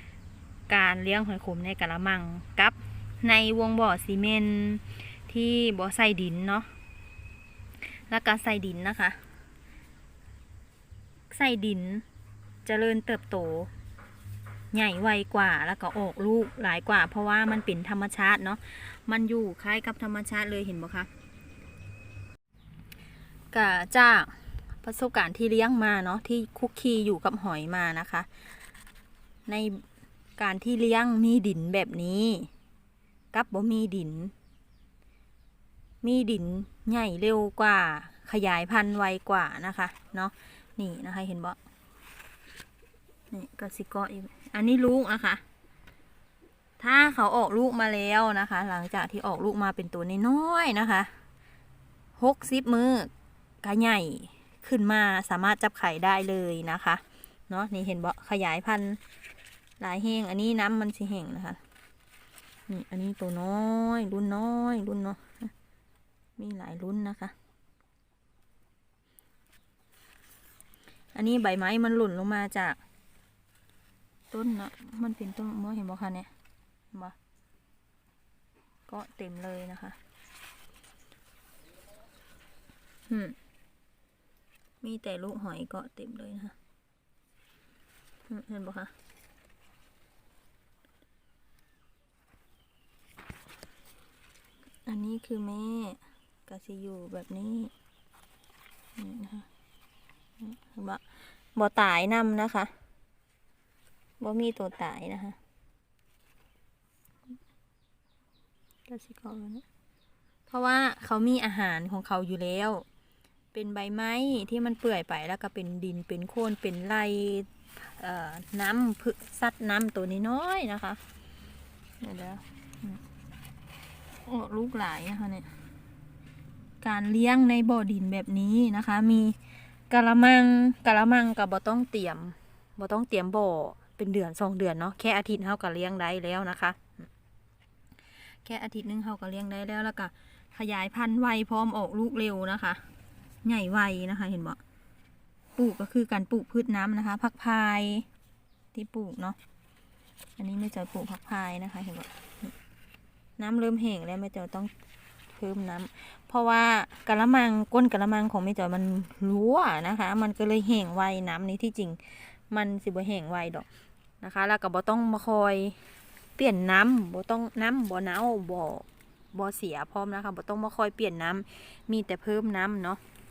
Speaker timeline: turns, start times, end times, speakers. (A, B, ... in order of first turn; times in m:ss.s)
0:00.7-0:06.7 A
0:07.9-0:09.2 A
0:11.3-0:12.0 A
0:12.6-0:13.7 A
0:14.7-0:21.1 A
0:23.5-0:28.3 A
0:29.5-0:29.8 A
0:30.4-0:32.5 A
0:33.3-0:34.3 A
0:36.0-0:41.6 A
0:43.3-0:45.4 A
0:46.8-0:51.1 A
0:52.2-0:53.1 A
0:53.6-0:59.0 A
0:59.8-1:01.6 A
1:02.7-1:05.5 A
1:06.4-1:07.3 A
1:11.1-1:12.8 A
1:14.3-1:16.3 A
1:18.9-1:20.0 A
1:23.1-1:23.4 A
1:24.8-1:26.5 A
1:28.3-1:28.9 A
1:34.8-1:37.7 A
1:39.0-1:39.5 A
1:40.4-1:42.7 A
1:44.2-1:45.4 A
1:48.9-1:49.6 A
1:50.5-1:52.8 A
1:53.5-2:01.0 A
2:02.0-2:03.0 A
2:04.2-2:05.5 A
2:06.8-2:09.4 A
2:09.9-2:17.0 A
2:18.4-2:22.8 A
2:23.4-2:24.6 A
2:25.6-2:28.1 A
2:28.7-2:29.4 A
2:30.4-2:32.5 A
2:33.4-2:34.7 A
2:35.3-2:43.7 A
2:44.2-2:45.8 A
2:46.4-2:53.0 A